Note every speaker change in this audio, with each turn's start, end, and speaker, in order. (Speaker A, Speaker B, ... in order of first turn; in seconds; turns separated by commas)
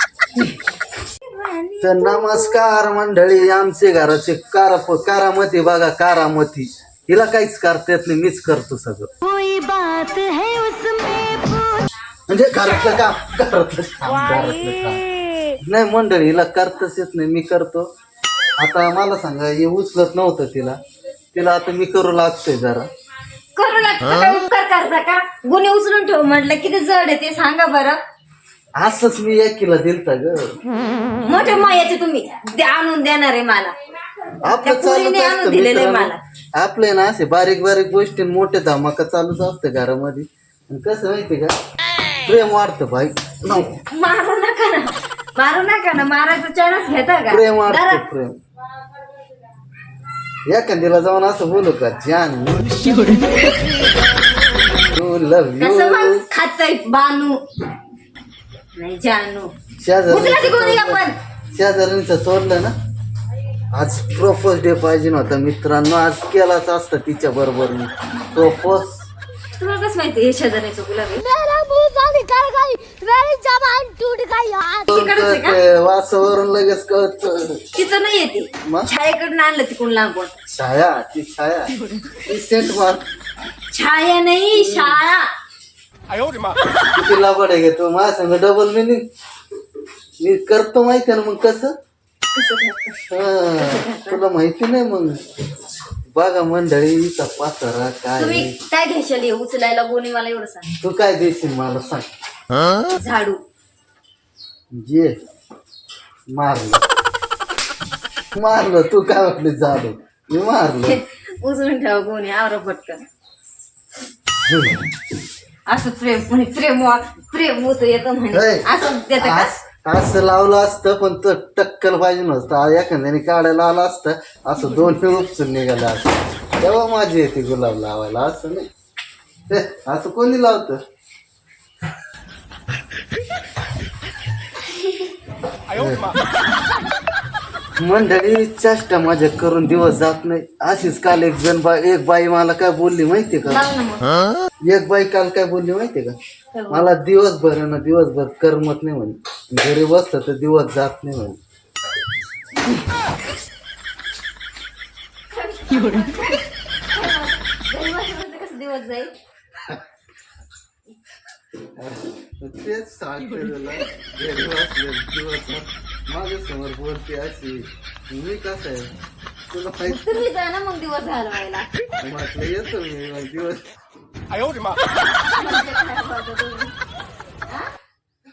Speaker A: 1.2-2.6, Speaker B: 1.8-9.1, Speaker C: 9.2-11.9, Speaker B: 12.3-15.0, Speaker B: 15.6-17.9, Speaker B: 18.6-20.8, Speaker B: 21.3-22.9, Speaker A: 23.6-28.0, Speaker B: 28.8-30.5, Speaker A: 31.2-33.7, Speaker B: 34.4-41.5, Speaker A: 34.5-36.2, Speaker B: 42.2-43.8, Speaker A: 43.5-48.0, Speaker B: 47.3-48.4, Speaker B: 50.5-53.1, Speaker B: 54.9-56.2, Speaker A: 55.6-57.4, Speaker A: 58.8-59.5, Speaker B: 59.8-61.0, Speaker A: 60.1-61.2, Speaker B: 61.5-62.7, Speaker B: 63.7-69.1, Speaker A: 69.6-71.3, Speaker C: 71.2-74.9, Speaker A: 74.8-75.6, Speaker B: 74.9-77.7, Speaker A: 77.8-80.4, Speaker B: 80.5-83.0, Speaker A: 83.7-85.3, Speaker B: 84.5-85.0, Speaker B: 86.9-89.0, Speaker B: 90.2-91.8, Speaker A: 92.3-94.2, Speaker B: 93.1-95.2, Speaker B: 96.1-98.5, Speaker A: 98.2-100.7, Speaker B: 100.8-102.1, Speaker A: 102.9-103.4, Speaker B: 104.7-105.2, Speaker B: 106.3-106.8, Speaker B: 108.3-111.0, Speaker A: 110.8-113.0, Speaker B: 114.5-114.8, Speaker A: 115.7-119.5, Speaker B: 118.3-128.7, Speaker B: 129.5-130.8, Speaker B: 135.7-136.1, Speaker B: 137.8-143.6, Speaker A: 143.5-144.1, Speaker B: 144.7-146.2, Speaker A: 146.5-146.9, Speaker B: 146.7-151.4, Speaker A: 155.3-159.2, Speaker B: 161.8-168.9, Speaker B: 169.5-170.2, Speaker A: 169.8-171.7, Speaker B: 172.0-173.7, Speaker A: 175.3-176.8